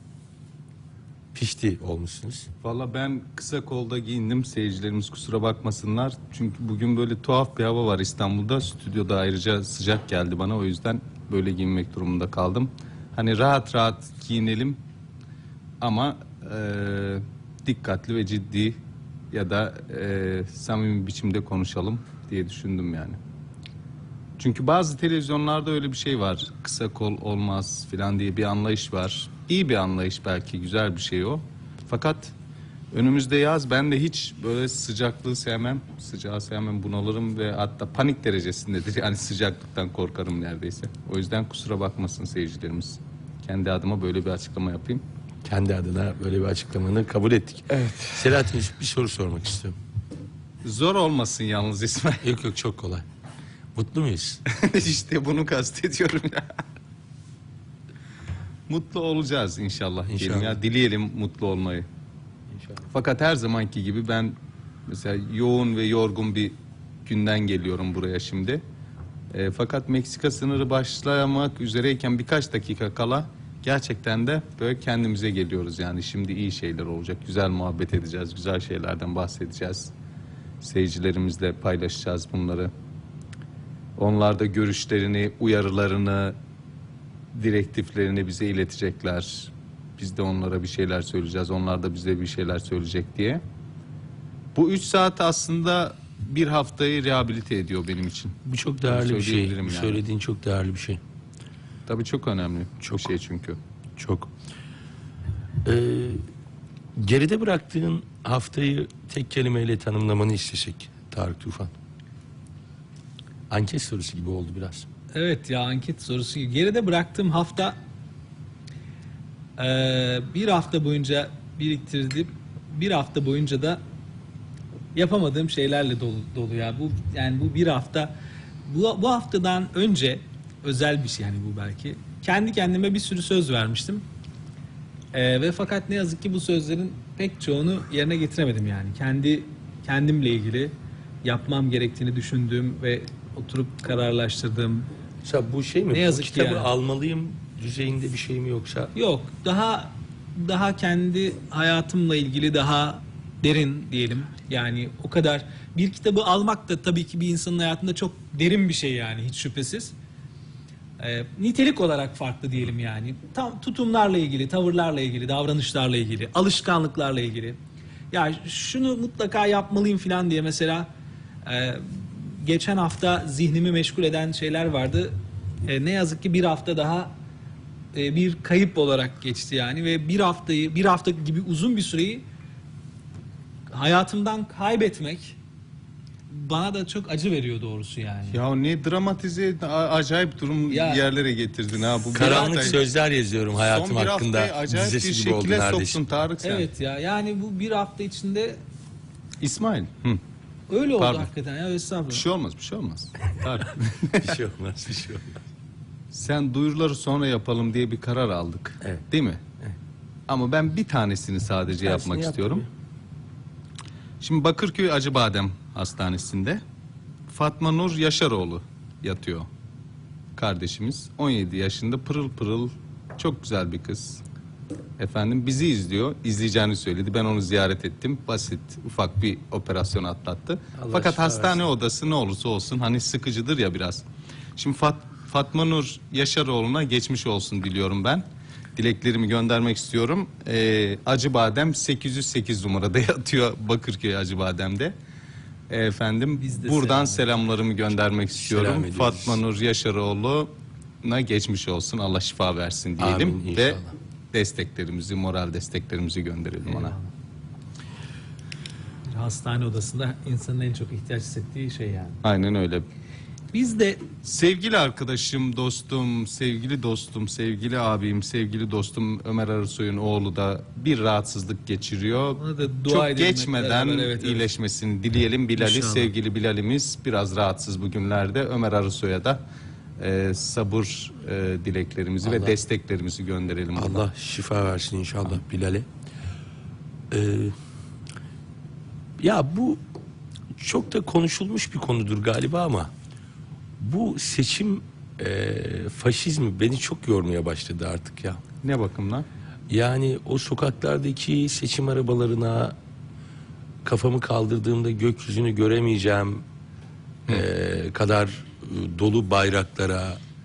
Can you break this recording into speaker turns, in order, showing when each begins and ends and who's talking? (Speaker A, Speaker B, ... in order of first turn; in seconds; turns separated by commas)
Speaker A: 1.3-2.5, Speaker B: 2.6-14.8, Speaker B: 15.8-18.8, Speaker B: 19.3-23.2, Speaker B: 24.4-32.3, Speaker B: 32.9-45.0, Speaker A: 45.5-49.8, Speaker B: 47.7-48.1, Speaker B: 50.6-52.2, Speaker A: 52.2-53.0, Speaker A: 53.8-54.4, Speaker B: 54.5-56.5, Speaker B: 58.7-61.9, Speaker A: 60.1-60.6, Speaker B: 62.9-64.4, Speaker B: 64.9-66.5, Speaker B: 67.1-68.6, Speaker B: 69.3-79.9, Speaker B: 80.6-82.7, Speaker B: 84.0-86.4, Speaker B: 87.3-93.4, Speaker B: 94.5-98.3, Speaker A: 98.5-101.0, Speaker B: 98.9-100.0, Speaker B: 101.9-103.6, Speaker A: 104.0-104.3, Speaker A: 105.6-106.2, Speaker A: 107.0-111.7, Speaker A: 113.5-114.9, Speaker C: 115.1-117.8, Speaker C: 119.6-123.8, Speaker C: 124.9-128.1, Speaker C: 128.7-134.0, Speaker C: 135.1-140.7, Speaker C: 141.2-144.9, Speaker A: 145.2-148.9, Speaker C: 145.9-146.7, Speaker C: 148.9-159.9, Speaker C: 161.0-167.6, Speaker C: 168.1-170.9, Speaker C: 171.4-177.1, Speaker C: 177.9-182.2, Speaker C: 183.7-185.4, Speaker C: 186.3-188.4, Speaker B: 188.3-192.8, Speaker C: 190.7-191.1, Speaker C: 192.1-192.8, Speaker A: 192.1-196.0, Speaker B: 193.6-196.7, Speaker C: 196.4-198.6, Speaker B: 199.4-200.2, Speaker C: 200.7-202.3, Speaker B: 201.0-201.3, Speaker B: 202.1-204.3, Speaker A: 204.2-205.3, Speaker B: 206.1-209.4, Speaker B: 210.3-212.7, Speaker A: 211.8-212.7, Speaker B: 214.2-216.6, Speaker B: 217.3-219.5, Speaker B: 220.4-224.2, Speaker B: 225.0-234.0, Speaker A: 230.8-231.7, Speaker B: 234.6-238.2, Speaker B: 238.8-244.9, Speaker B: 245.7-250.5, Speaker C: 246.4-247.4, Speaker A: 248.4-249.4, Speaker B: 251.0-253.8, Speaker A: 253.0-254.0, Speaker B: 254.3-257.0, Speaker C: 256.6-257.1, Speaker C: 259.1-262.2, Speaker B: 262.2-262.9, Speaker C: 263.5-264.1, Speaker B: 264.2-279.4, Speaker C: 272.3-274.5, Speaker C: 275.6-276.1, Speaker B: 280.0-284.1, Speaker A: 282.2-282.6, Speaker A: 283.8-285.9, Speaker A: 287.1-287.6, Speaker A: 289.2-289.8, Speaker A: 290.6-292.9, Speaker A: 293.8-298.4, Speaker B: 298.6-299.3, Speaker A: 299.7-302.8, Speaker A: 303.8-306.4, Speaker A: 307.3-310.2